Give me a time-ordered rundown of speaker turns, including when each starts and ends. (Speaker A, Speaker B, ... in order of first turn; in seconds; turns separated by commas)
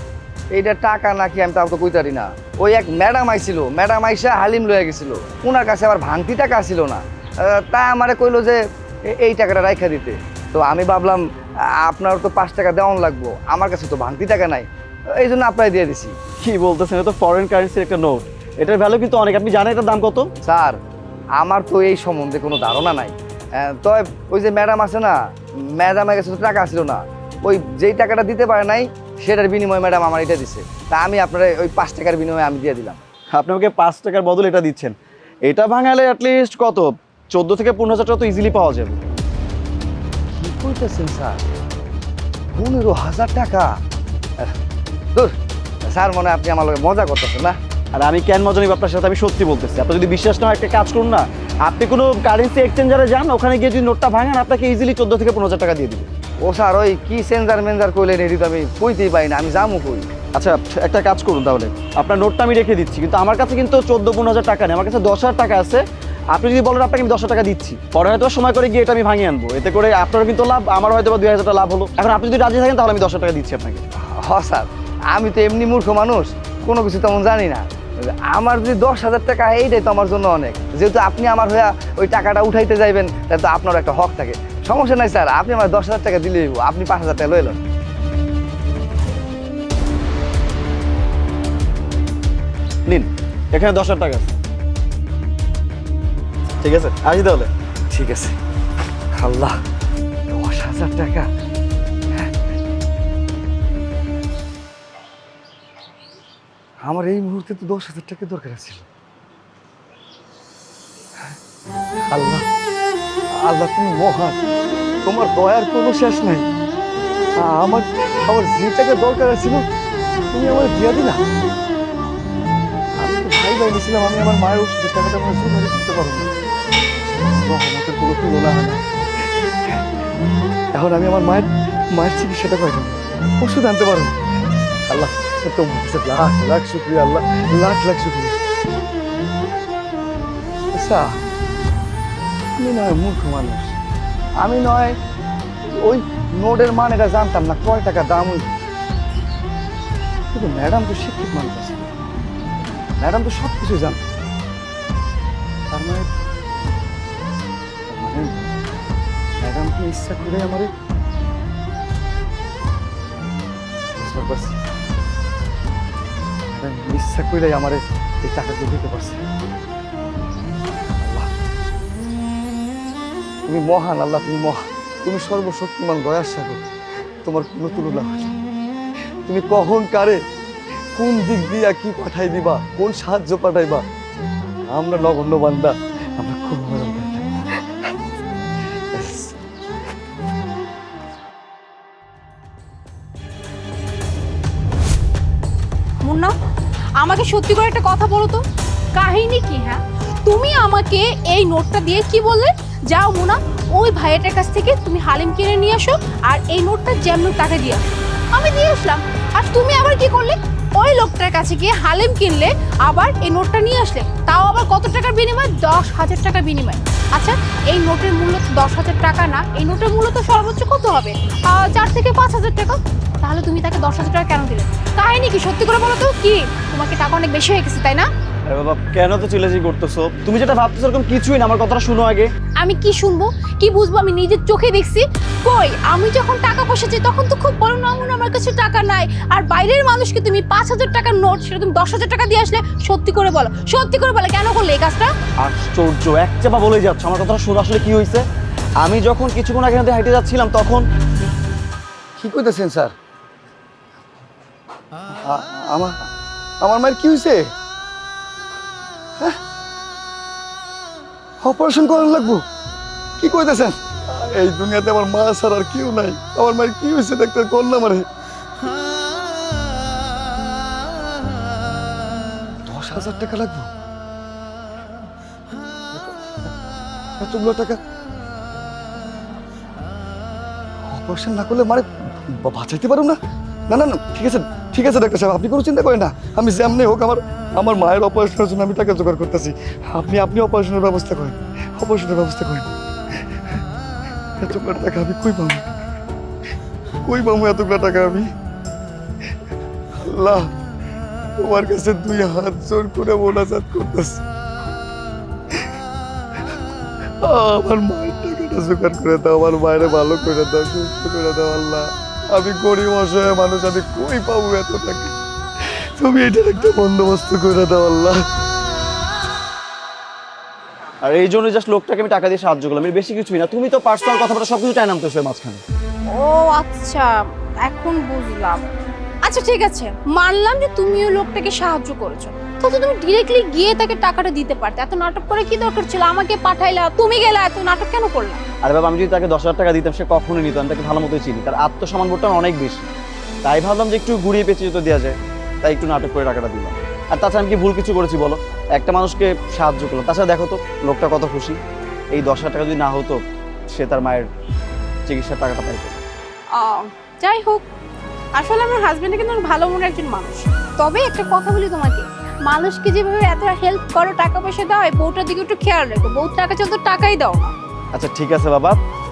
Speaker A: 0.5-11.2, Speaker A: 11.8-16.1, Speaker B: 16.4-20.3, Speaker A: 20.4-20.8, Speaker A: 21.4-25.1, Speaker A: 25.8-33.0, Speaker B: 33.3-35.0, Speaker B: 35.5-39.0, Speaker A: 40.3-41.4, Speaker A: 42.5-43.7, Speaker A: 45.9-47.6, Speaker B: 47.9-56.1, Speaker A: 56.5-60.1, Speaker B: 60.4-73.8, Speaker A: 74.2-77.7, Speaker A: 78.3-87.6, Speaker B: 92.9-94.3, Speaker B: 96.6-97.5, Speaker A: 97.9-98.3, Speaker A: 99.2-99.5, Speaker A: 100.3-101.3, Speaker A: 106.8-108.8, Speaker A: 112.1-112.4, Speaker A: 113.4-114.4, Speaker A: 115.0-116.5, Speaker A: 117.4-119.6, Speaker A: 120.3-121.2, Speaker A: 123.0-126.3, Speaker A: 127.1-128.8, Speaker A: 130.7-134.1, Speaker A: 134.9-138.4, Speaker A: 140.7-141.1, Speaker A: 142.6-143.8, Speaker A: 144.4-145.0, Speaker A: 145.7-148.5, Speaker A: 150.3-151.9, Speaker A: 153.0-154.0, Speaker A: 155.7-156.1, Speaker A: 157.9-158.5, Speaker A: 159.4-160.7, Speaker A: 164.0-164.6, Speaker A: 166.5-169.2, Speaker A: 171.0-171.3, Speaker A: 173.5-176.6, Speaker A: 177.2-178.4, Speaker A: 179.3-180.2, Speaker A: 181.0-183.8, Speaker A: 184.7-187.3, Speaker A: 188.9-189.4, Speaker C: 196.0-196.3, Speaker C: 197.0-198.4, Speaker C: 198.9-228.1, Speaker B: 228.5-232.3, Speaker C: 232.6-245.1, Speaker B: 245.4-248.2, Speaker B: 248.8-250.8, Speaker A: 252.2-252.9, Speaker A: 255.2-256.1, Speaker A: 256.6-257.5, Speaker A: 261.4-262.4, Speaker A: 263.2-268.1, Speaker A: 272.7-273.7, Speaker A: 275.9-276.5, Speaker A: 277.2-277.8, Speaker A: 280.9-293.6, Speaker A: 294.4-295.8, Speaker A: 297.1-298.3, Speaker A: 300.0-300.5, Speaker A: 301.4-304.2, Speaker A: 307.2-318.2, Speaker B: 321.0-325.6, Speaker C: 326.1-328.6, Speaker C: 329.2-338.4, Speaker B: 338.6-342.9, Speaker B: 343.4-351.6, Speaker B: 352.1-354.3, Speaker B: 355.1-356.0, Speaker C: 356.5-357.6, Speaker C: 358.4-367.5, Speaker B: 367.9-368.8